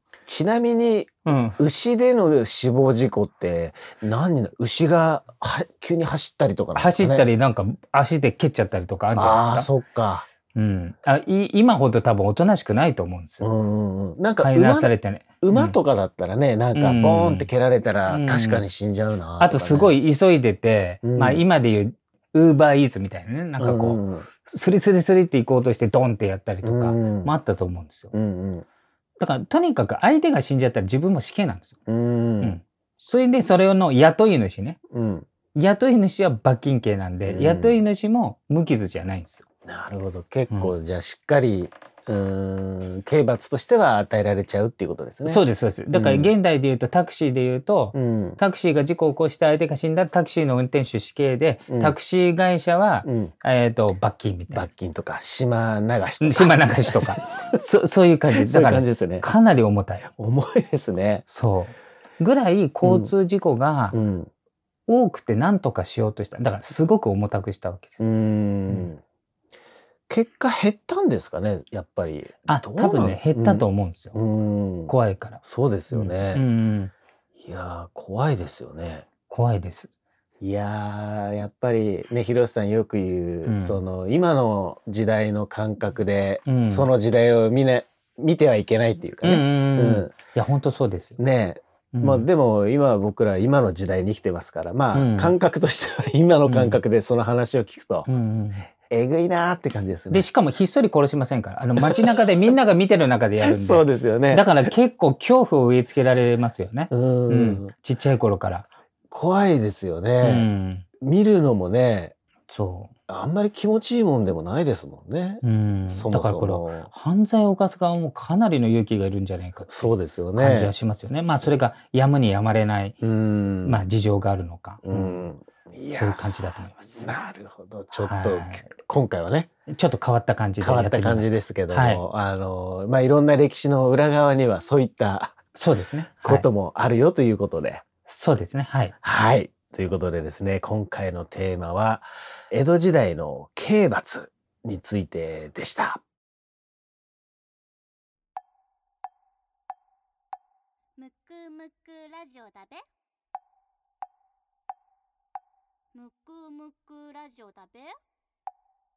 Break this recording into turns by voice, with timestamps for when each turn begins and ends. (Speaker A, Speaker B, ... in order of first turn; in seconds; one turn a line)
Speaker A: 0.3-7.3
Speaker B: 1.3-1.6
Speaker B: 6.8-9.7
Speaker A: 9.1-10.3
Speaker B: 10.6-13.4
Speaker A: 13.4-19.9
Speaker B: 14.4-15.8
Speaker B: 16.8-17.5
Speaker B: 18.1-18.6
Speaker B: 19.4-28.1
Speaker A: 21.0-21.4
Speaker A: 23.6-24.3
Speaker A: 26.6-27.3
Speaker A: 28.1-28.6
Speaker B: 29.2-31.8
Speaker A: 31.9-32.6
Speaker B: 32.4-34.8
Speaker A: 34.9-35.3
Speaker B: 35.5-39.4
Speaker A: 37.3-37.8
Speaker A: 39.7-45.4
Speaker B: 45.3-54.7
Speaker A: 45.9-46.3
Speaker A: 47.9-48.4
Speaker A: 51.7-51.9
Speaker A: 53.0-53.3
Speaker A: 54.5-57.6
Speaker B: 56.2-60.1
Speaker A: 58.4-59.3
Speaker A: 60.1-61.2
Speaker B: 61.3-64.0
Speaker A: 62.8-63.1
Speaker A: 63.9-64.3
Speaker B: 64.9-68.0
Speaker A: 68.0-69.0
Speaker A: 70.1-76.4
Speaker B: 72.5-74.2
Speaker B: 74.9-76.9
Speaker A: 77.4-79.1
Speaker B: 79.3-79.9
Speaker A: 80.4-90.1
Speaker B: 83.5-83.8
Speaker B: 86.5-86.9
Speaker B: 89.2-91.2
Speaker A: 91.2-98.1
Speaker B: 91.9-92.3
Speaker B: 94.9-95.3
Speaker B: 96.5-96.8
Speaker B: 98.1-98.7
Speaker A: 98.9-100.3
Speaker B: 100.1-108.7
Speaker A: 101.8-102.3
Speaker A: 103.4-104.6
Speaker A: 106.9-107.7
Speaker A: 109.1-110.5
Speaker B: 110.2-110.8
Speaker A: 111.0-112.1
Speaker B: 112.5-112.9
Speaker A: 113.1-116.9
Speaker B: 115.4-123.0
Speaker A: 119.7-120.7
Speaker A: 123.0-123.8
Speaker B: 123.6-125.2
Speaker A: 124.8-126.4
Speaker B: 125.9-127.1
Speaker A: 127.0-129.5
Speaker B: 128.0-128.7
Speaker B: 129.7-132.0
Speaker A: 130.6-135.4
Speaker B: 135.5-136.5
Speaker A: 136.2-137.8
Speaker B: 138.1-138.9
Speaker A: 139.0-146.0
Speaker C: 151.0-152.8
Speaker C: 155.9-157.9